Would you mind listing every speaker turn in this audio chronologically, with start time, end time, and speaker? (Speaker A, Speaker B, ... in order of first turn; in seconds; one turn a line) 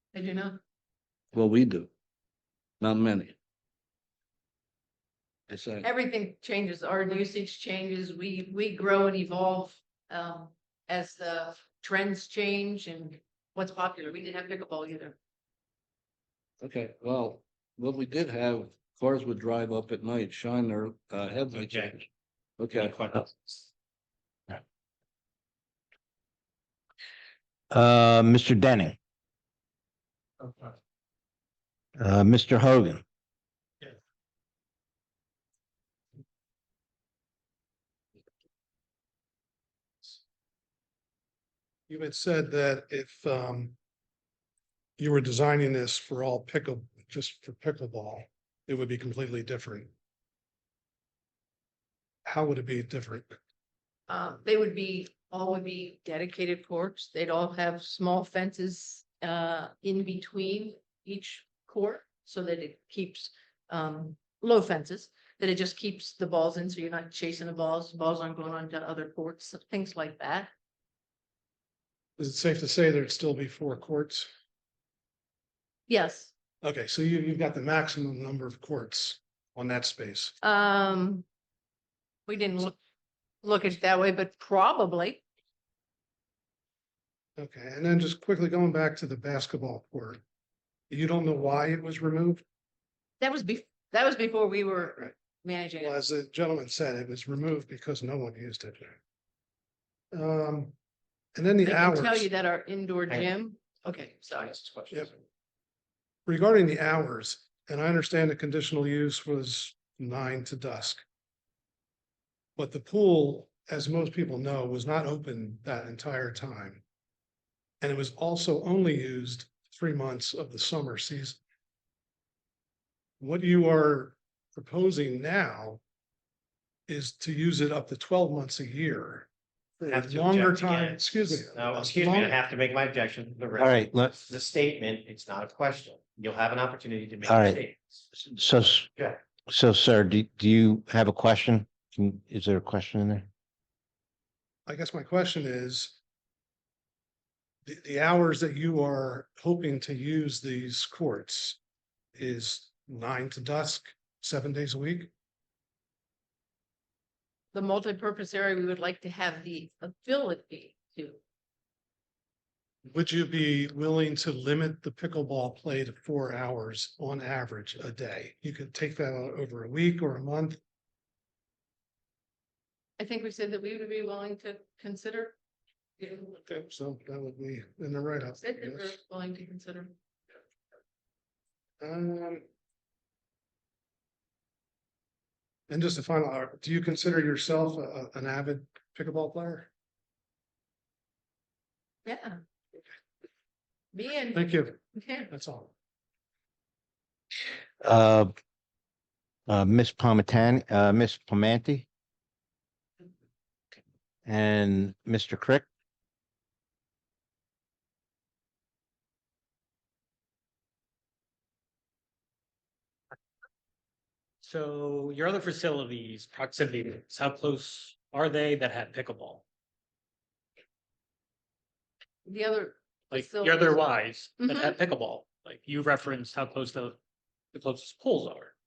Speaker A: 0.1-0.6
Speaker B: 1.3-1.9
Speaker B: 2.8-3.4
Speaker B: 5.5-5.9
Speaker A: 5.8-15.2
Speaker B: 16.6-22.1
Speaker B: 22.6-23.2
Speaker C: 22.8-23.2
Speaker D: 27.7-29.0
Speaker D: 32.0-33.0
Speaker E: 41.9-43.8
Speaker E: 45.0-49.9
Speaker E: 52.2-53.3
Speaker A: 54.1-70.5
Speaker E: 72.2-74.3
Speaker A: 75.9-76.3
Speaker E: 76.6-80.3
Speaker A: 80.4-81.3
Speaker A: 82.3-82.8
Speaker A: 83.4-85.2
Speaker E: 87.4-90.2
Speaker E: 90.9-92.4
Speaker A: 93.2-96.1
Speaker E: 95.9-99.0
Speaker E: 100.1-100.8
Speaker E: 101.3-102.3
Speaker A: 101.6-104.6
Speaker E: 106.3-111.0
Speaker E: 112.6-116.8
Speaker E: 117.8-121.4
Speaker E: 123.2-125.8
Speaker E: 126.9-129.3
Speaker E: 129.8-132.3
Speaker C: 129.9-137.8
Speaker D: 133.6-134.2
Speaker D: 137.2-137.6
Speaker D: 138.2-138.9
Speaker D: 139.5-143.3
Speaker E: 144.7-146.0
Speaker E: 147.7-151.6
Speaker E: 152.2-155.1
Speaker A: 157.5-161.2
Speaker E: 162.8-170.6
Speaker A: 173.0-175.4
Speaker A: 176.0-176.4
Speaker E: 176.4-178.9
Speaker A: 178.3-179.9
Speaker E: 181.8-182.4
Speaker E: 185.7-189.7
Speaker A: 192.1-192.4
Speaker A: 193.9-195.3
Speaker E: 194.3-194.8
Speaker E: 195.3-195.7
Speaker D: 197.8-198.3
Speaker D: 199.5-201.9
Speaker D: 204.3-205.7
Speaker F: 214.4-219.4
Speaker A: 222.2-223.9
Speaker F: 223.1-227.0
Speaker F: 227.5-228.5